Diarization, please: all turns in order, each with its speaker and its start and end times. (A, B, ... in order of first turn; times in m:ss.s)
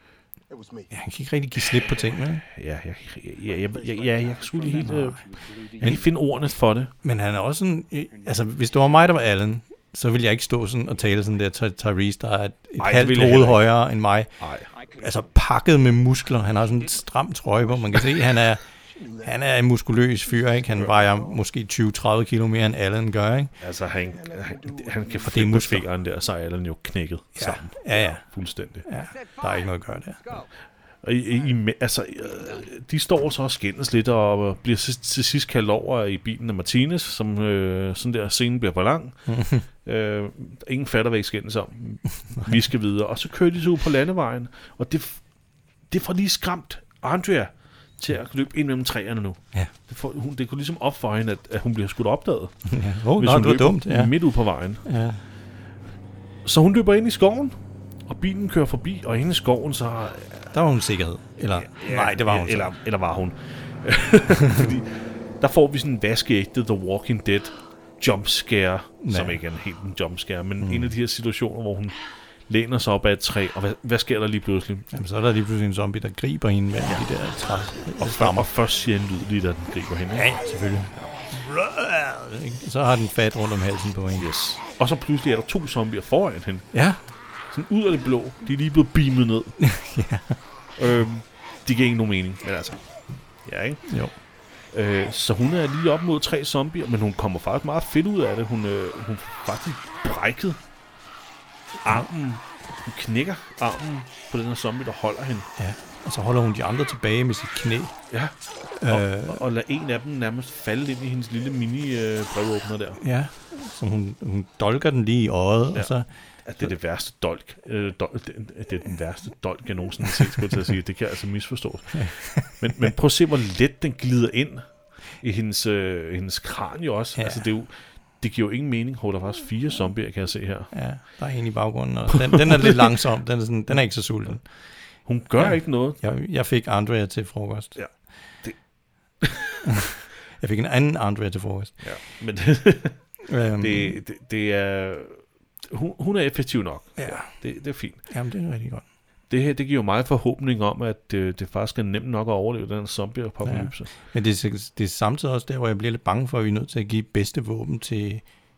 0:00.5-0:00.9 A
0:00.9-0:02.4 B
0:02.5-0:06.9 C
0:03.5-0:05.9 A
0:04.8-0:05.2 B
0:07.0-0:18.6 B
0:12.8-0:13.7 C
0:14.4-0:14.7 C
0:17.9-0:18.2 A
0:18.9-0:19.4 A
0:19.2-0:23.5 B
0:23.6-0:28.9 C
0:24.0-0:25.4 A
0:25.2-0:25.9 B
0:27.4-0:28.3 B
0:28.8-0:30.4 B
0:31.0-0:45.2 C
0:39.3-0:39.7 B
0:45.9-0:52.6 C
0:52.7-0:54.2 B
0:53.2-0:54.8 C
0:54.8-0:55.2 B
0:56.4-1:00.5 C
1:00.5-1:02.7 B
1:01.6-1:14.9 C
1:09.0-1:09.4 B
1:10.6-1:10.9 B
1:14.9-1:18.5 B
1:18.0-1:20.3 C
1:20.1-1:24.3 B
1:24.2-1:26.7 C
1:26.7-1:27.0 B
1:27.5-1:29.6 C
1:29.6-1:30.4 B
1:30.8-1:32.8 C
1:33.4-1:33.9 C
1:33.9-1:34.1 B
1:34.7-1:40.6 C
1:41.8-1:45.5 C
1:45.6-1:47.9 B
1:48.1-1:48.4 C
1:48.8-1:49.4 B
1:48.9-1:53.0 C
1:53.0-1:56.1 B
1:56.4-2:04.7 C
2:01.9-2:02.6 B
2:05.2-2:10.7 C
2:07.2-2:07.5 B
2:10.7-2:14.4 B
2:12.1-2:13.0 C
2:15.1-2:16.0 C
2:15.4-2:17.8 B
2:19.2-2:19.6 C
2:19.6-2:21.8 B
2:21.8-2:23.0 C
2:23.2-2:24.0 B
2:23.6-2:28.0 C
2:27.0-2:27.3 B
2:28.1-2:28.8 B
2:29.3-2:33.9 C
2:33.4-2:38.2 B